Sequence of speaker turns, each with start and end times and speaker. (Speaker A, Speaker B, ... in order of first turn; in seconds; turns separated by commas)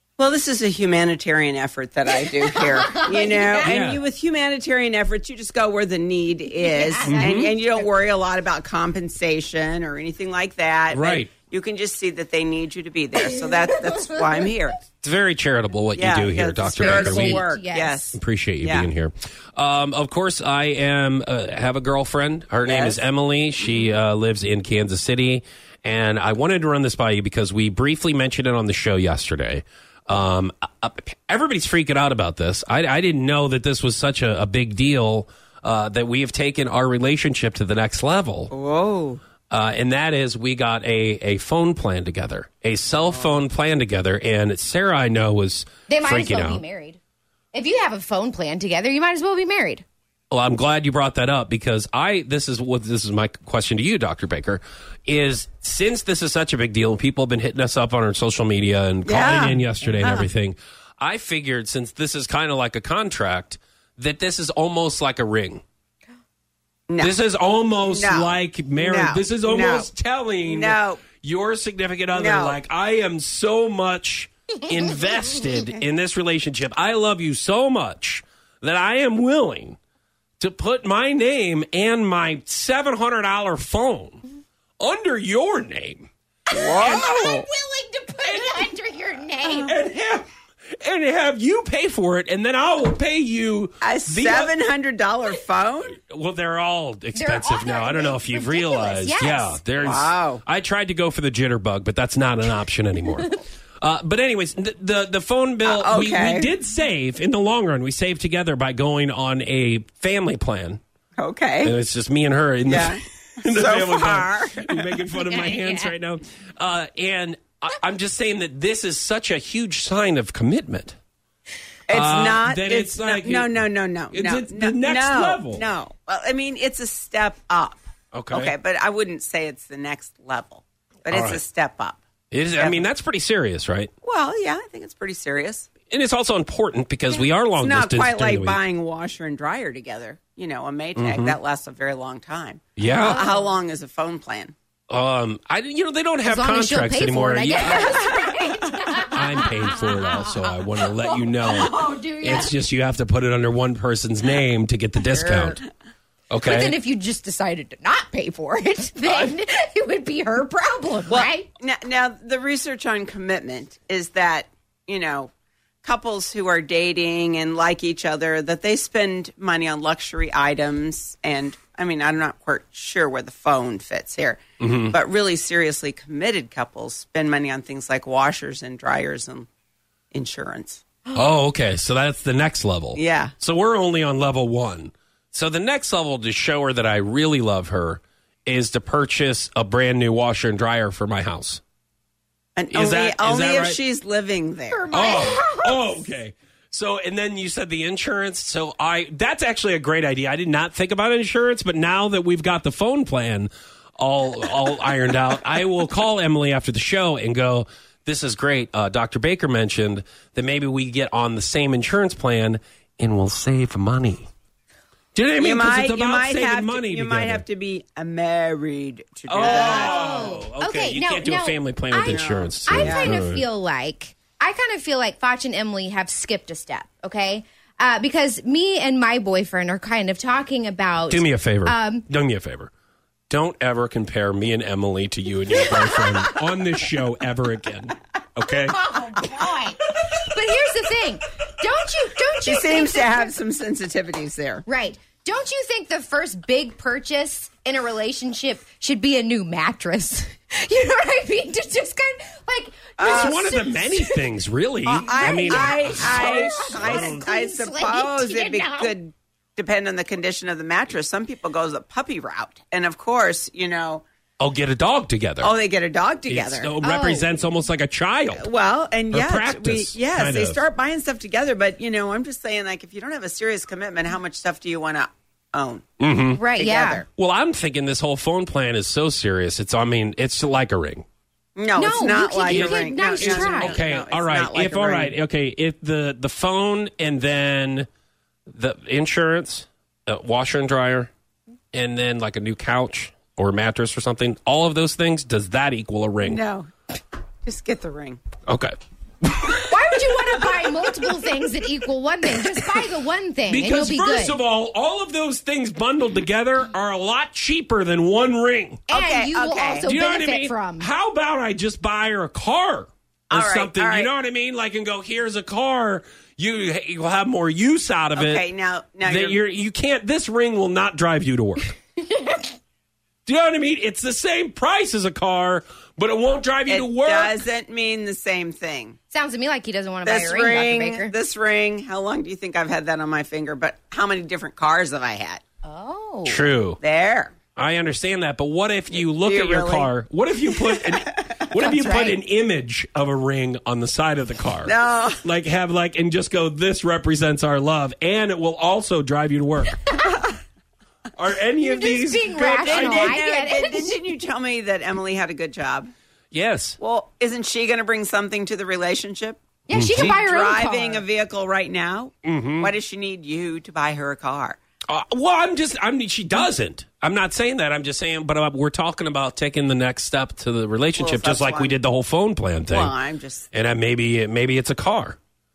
Speaker A: 0.2-14.8, Speaker B: 2.3-3.8, Speaker C: 3.6-4.0, Speaker B: 6.6-7.4, Speaker C: 7.0-7.5, Speaker C: 10.9-11.3, Speaker B: 13.3-14.2, Speaker C: 15.0-17.5, Speaker A: 16.0-18.9, Speaker B: 16.8-18.1, Speaker C: 18.1-38.5, Speaker A: 22.6-23.0, Speaker A: 38.5-39.2, Speaker C: 39.5-46.6, Speaker B: 45.9-47.0, Speaker B: 47.5-49.8, Speaker C: 50.3-65.6, Speaker A: 59.1-60.3, Speaker A: 66.9-67.2, Speaker C: 67.0-79.8, Speaker A: 67.8-69.9, Speaker A: 70.5-71.0, Speaker A: 72.1-72.6, Speaker C: 80.4-84.2, Speaker C: 84.8-86.1, Speaker B: 86.5-89.8, Speaker A: 86.5-87.5, Speaker C: 86.8-87.3, Speaker C: 88.2-88.7, Speaker C: 89.4-90.3, Speaker C: 90.8-94.5, Speaker A: 93.8-96.0, Speaker C: 96.0-110.8, Speaker B: 97.2-99.6, Speaker A: 99.8-100.4, Speaker A: 105.7-106.5, Speaker A: 111.2-111.8, Speaker C: 111.6-121.0, Speaker A: 112.7-115.2, Speaker B: 115.3-115.9, Speaker A: 121.9-132.0, Speaker C: 121.9-125.6, Speaker C: 128.1-128.5, Speaker C: 131.1-131.4, Speaker C: 132.3-133.9, Speaker A: 132.6-132.9, Speaker A: 134.0-135.7, Speaker C: 135.9-138.6, Speaker A: 137.6-144.5, Speaker C: 141.0-141.4, Speaker C: 142.8-143.2, Speaker B: 142.8-143.5, Speaker C: 144.9-148.1, Speaker B: 146.3-152.5, Speaker A: 147.7-148.3, Speaker C: 149.1-155.6, Speaker A: 155.2-155.6, Speaker C: 156.3-156.8, Speaker B: 156.4-161.5, Speaker C: 159.1-159.3, Speaker A: 161.1-165.3, Speaker A: 165.8-179.5, Speaker C: 174.6-174.9, Speaker A: 180.1-180.8, Speaker C: 181.1-191.6, Speaker A: 182.9-183.3, Speaker A: 192.6-195.3, Speaker C: 192.7-193.8, Speaker B: 194.7-196.0, Speaker C: 194.9-214.3, Speaker C: 215.1-217.4, Speaker A: 215.4-220.3, Speaker C: 219.3-223.4, Speaker B: 219.4-232.1, Speaker A: 222.0-223.1, Speaker C: 231.1-232.7, Speaker C: 233.3-238.8, Speaker B: 235.6-236.3, Speaker B: 238.7-243.3, Speaker A: 242.4-244.7, Speaker B: 244.7-254.3, Speaker A: 253.0-253.6, Speaker C: 253.1-257.2, Speaker A: 254.9-264.0, Speaker B: 255.1-258.9, Speaker C: 264.4-265.5, Speaker A: 265.4-266.7, Speaker C: 266.3-268.4, Speaker B: 266.8-267.3, Speaker A: 268.3-275.9, Speaker C: 269.1-270.6, Speaker C: 276.0-276.4, Speaker B: 276.4-277.0, Speaker A: 276.6-277.1, Speaker C: 277.1-281.1, Speaker A: 281.6-285.1, Speaker B: 281.8-283.8, Speaker C: 282.4-287.9, Speaker C: 288.5-291.1, Speaker C: 291.7-296.4, Speaker A: 296.2-296.7, Speaker A: 297.4-298.2, Speaker C: 298.5-301.0, Speaker B: 299.7-304.4, Speaker C: 302.6-302.8, Speaker C: 303.5-308.8, Speaker B: 308.9-310.9, Speaker A: 308.9-309.9, Speaker C: 309.9-318.4, Speaker A: 313.3-314.1, Speaker A: 318.1-319.4, Speaker C: 319.1-321.8, Speaker C: 323.3-327.4, Speaker A: 326.7-329.0, Speaker B: 329.1-331.1, Speaker A: 330.1-335.4, Speaker B: 335.6-336.4, Speaker C: 336.3-336.8, Speaker A: 336.8-337.3, Speaker C: 337.6-349.8, Speaker A: 338.9-339.9, Speaker A: 340.5-342.2, Speaker A: 344.6-345.2, Speaker C: 351.2-353.2, Speaker B: 351.6-354.0, Speaker A: 352.4-355.9, Speaker C: 356.3-356.8, Speaker A: 356.8-364.6, Speaker B: 359.7-361.0, Speaker C: 359.7-360.2, Speaker C: 362.2-362.7, Speaker C: 364.9-372.9, Speaker A: 371.0-371.8, Speaker A: 372.7-373.5, Speaker C: 373.5-375.2